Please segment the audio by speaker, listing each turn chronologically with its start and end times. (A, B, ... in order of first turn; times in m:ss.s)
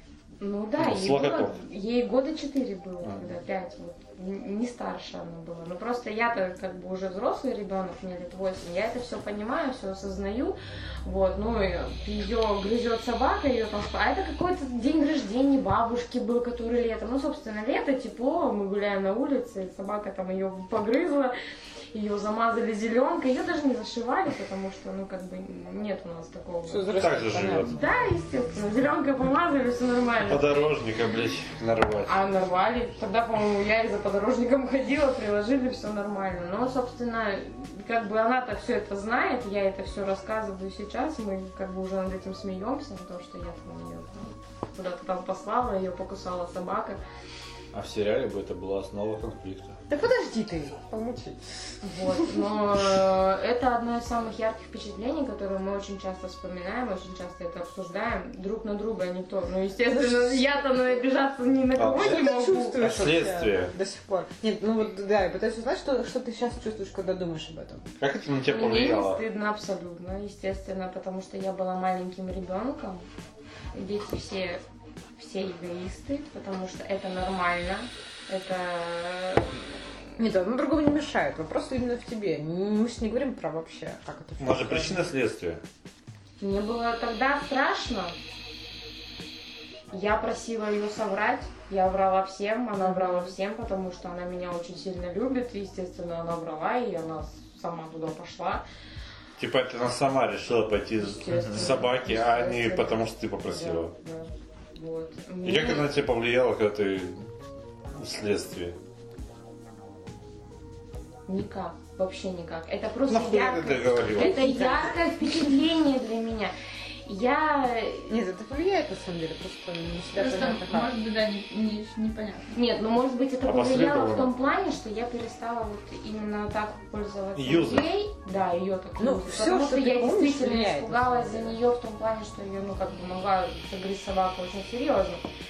0:00.4-0:21.3 A
0:00.8-0:01.6 B
0:03.0-0:03.3 B
0:21.9-0:27.0 A
0:26.7-0:27.8 C
0:27.0-0:27.8 B
0:27.6-0:30.5 A
0:30.3-0:32.2 B
0:32.0-0:47.0 A
0:47.7-0:49.8 B
0:49.9-0:51.4 C
0:51.8-1:02.8 A
0:59.8-1:00.6 C
1:01.8-1:02.2 B
1:02.0-1:07.9 C
1:02.8-1:03.7 B
1:08.0-1:09.2 B
1:08.4-1:13.0 A
1:13.7-1:14.6 A
1:15.2-1:19.6 A
1:20.2-1:25.0 C
1:24.4-1:25.6 B
1:26.4-1:28.1 A
1:29.9-1:38.6 A
1:32.8-1:33.3 C
1:39.4-1:43.9 B
1:41.0-1:45.9 A
1:45.4-1:47.2 B
1:47.9-1:48.8 B
1:51.3-1:56.5 A
1:53.1-1:54.5 B
1:54.2-1:55.0 C
1:57.0-1:58.2 A
1:58.1-2:00.9 C
2:00.1-2:02.6 D
2:02.5-2:15.2 A
2:03.4-2:04.3 B
2:07.3-2:07.9 B
2:09.0-2:11.5 C